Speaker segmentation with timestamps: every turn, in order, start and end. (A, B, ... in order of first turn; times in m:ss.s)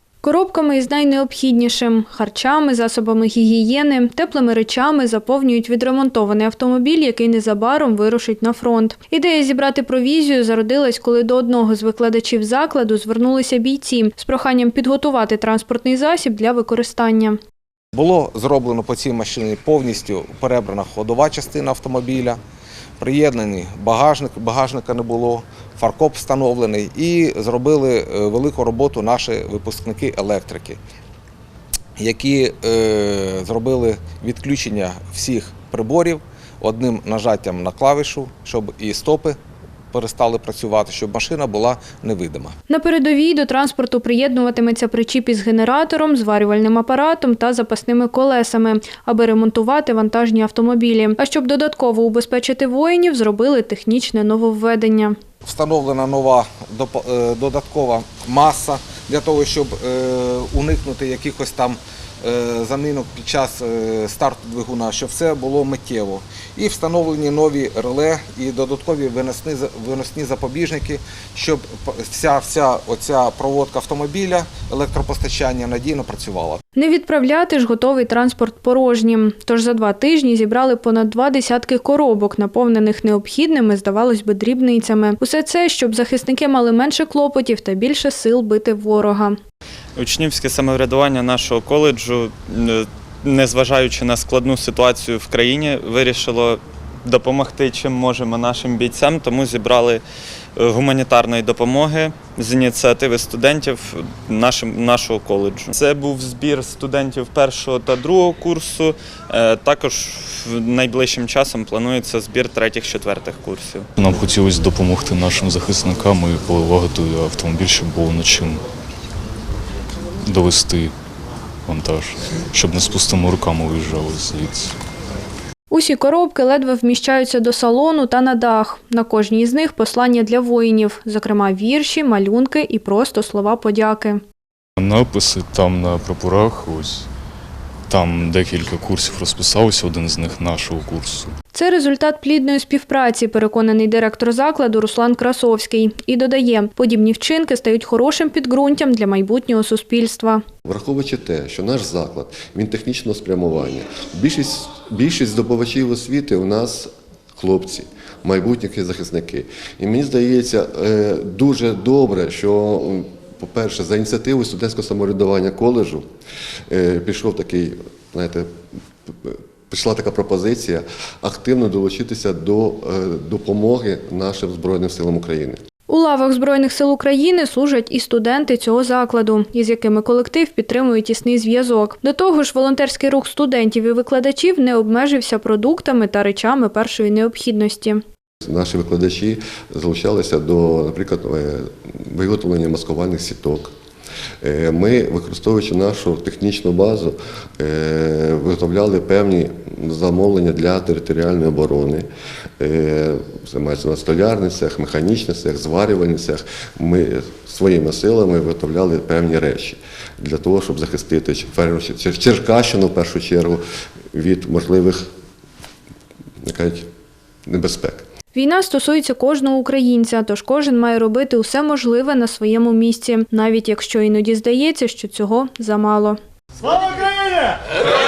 0:00.2-0:17.4 A
0:17.9-0:22.4 B
0:23.0-0:30.8 B
0:32.0-0:39.4 B
0:39.9-0:42.5 B
0:42.7-0:55.2 A
0:55.4-1:16.6 B
1:16.8-1:29.4 A
1:30.0-1:40.0 C
1:40.6-1:53.9 C
1:54.0-1:58.6 D
2:00.2-2:00.9 D
2:01.6-2:04.7 D
2:05.7-2:14.2 A
2:14.8-2:17.1 D
2:17.9-2:21.3 D
2:21.5-2:30.4 A
2:30.6-2:46.0 E
2:46.7-2:48.5 E
2:49.2-2:55.6 E
2:55.9-3:08.0 A
3:08.4-3:13.7 E
3:14.4-3:22.1 E
3:22.6-3:33.6 E
3:34.1-3:35.0 E
3:36.4-3:36.8 E
3:37.5-3:38.0 E
3:38.3-3:46.2 A